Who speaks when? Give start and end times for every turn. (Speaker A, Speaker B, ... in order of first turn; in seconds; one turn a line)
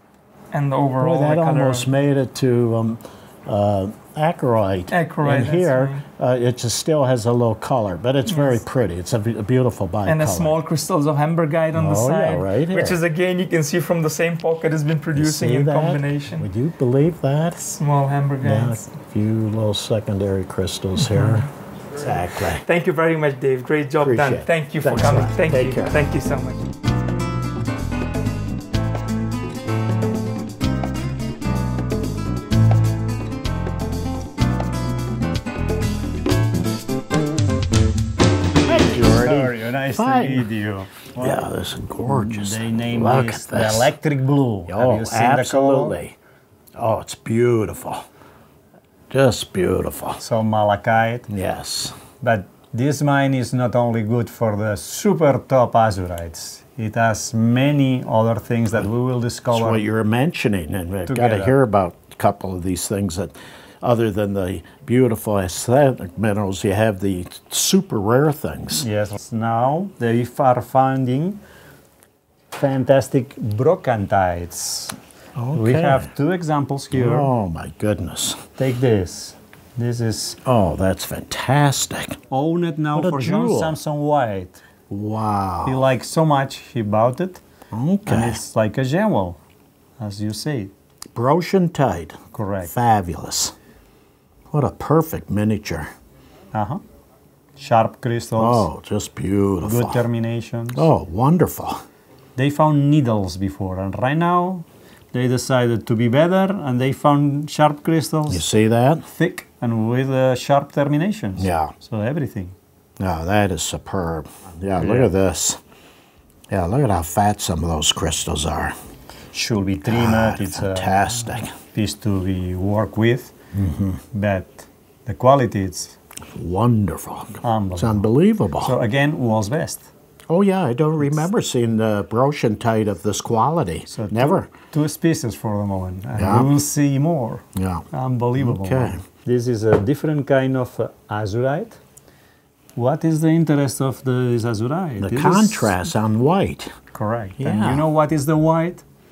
Speaker A: 0.5-1.9
Speaker B: 1.0-10.6
Speaker A: 4.9-6.0
Speaker A: 8.3-8.6
Speaker A: 10.1-16.4
Speaker B: 11.7-13.0
Speaker B: 15.2-17.8
Speaker A: 17.8-18.8
Speaker B: 18.4-22.6
Speaker A: 21.0-21.4
Speaker A: 22.6-26.6
Speaker B: 24.0-26.0
Speaker C: 38.5-41.5
Speaker B: 38.6-40.5
Speaker B: 41.2-43.9
Speaker C: 42.0-46.0
Speaker B: 44.7-46.1
Speaker B: 46.8-48.0
Speaker B: 49.1-50.2
Speaker C: 50.2-51.3
Speaker B: 51.3-52.0
Speaker C: 52.2-59.8
Speaker B: 59.5-68.9
Speaker C: 61.1-61.5
Speaker C: 68.8-71.4
Speaker C: 72.5-74.9
Speaker B: 75.3-76.1
Speaker C: 75.5-77.3
Speaker B: 76.9-78.4
Speaker C: 78.6-80.4
Speaker B: 80.4-82.2
Speaker C: 82.3-84.6
Speaker B: 82.9-83.8
Speaker B: 84.9-85.8
Speaker C: 85.7-87.4
Speaker B: 87.7-88.4
Speaker C: 88.0-89.4
Speaker C: 90.0-90.7
Speaker B: 91.1-93.5
Speaker C: 92.3-92.7
Speaker B: 94.5-95.9
Speaker C: 96.5-96.8
Speaker C: 97.6-98.7
Speaker B: 98.4-100.0
Speaker C: 99.6-100.9
Speaker B: 100.7-101.8
Speaker C: 102.3-108.5
Speaker B: 108.3-109.0
Speaker C: 109.1-112.5
Speaker B: 111.4-111.7
Speaker B: 113.0-115.6
Speaker C: 114.8-115.1
Speaker B: 116.5-118.7
Speaker C: 119.3-123.3
Speaker B: 119.8-121.5
Speaker B: 123.5-124.0
Speaker C: 124.1-126.0
Speaker B: 126.3-128.8
Speaker C: 127.4-128.1
Speaker C: 128.6-129.9
Speaker B: 130.3-134.5
Speaker C: 133.9-141.8
Speaker B: 136.2-136.5
Speaker B: 137.5-137.8
Speaker B: 138.4-139.0
Speaker C: 142.8-145.9
Speaker B: 145.0-146.8
Speaker C: 146.9-148.8
Speaker B: 147.4-147.8